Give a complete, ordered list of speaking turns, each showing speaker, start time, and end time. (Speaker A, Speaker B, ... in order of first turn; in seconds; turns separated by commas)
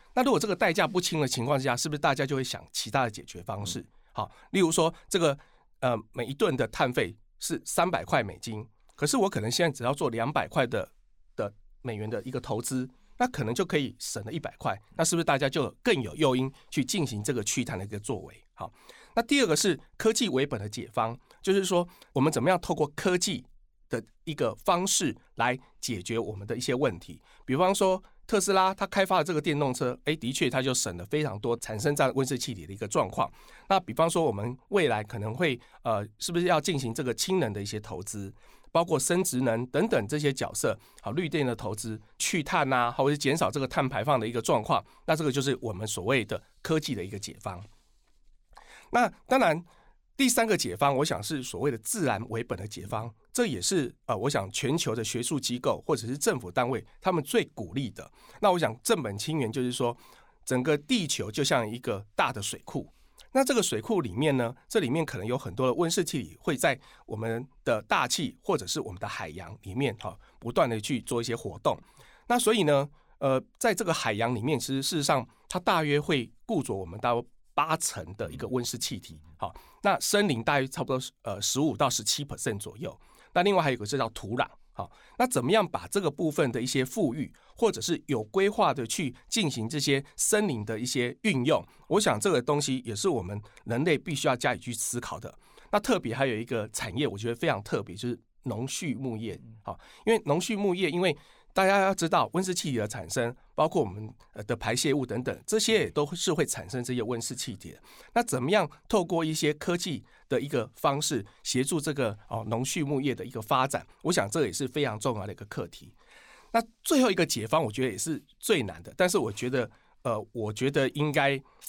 Speaker A: 0.1-47.7, Speaker A: 48.9-49.6, Speaker A: 50.2-115.9, Speaker A: 116.5-121.4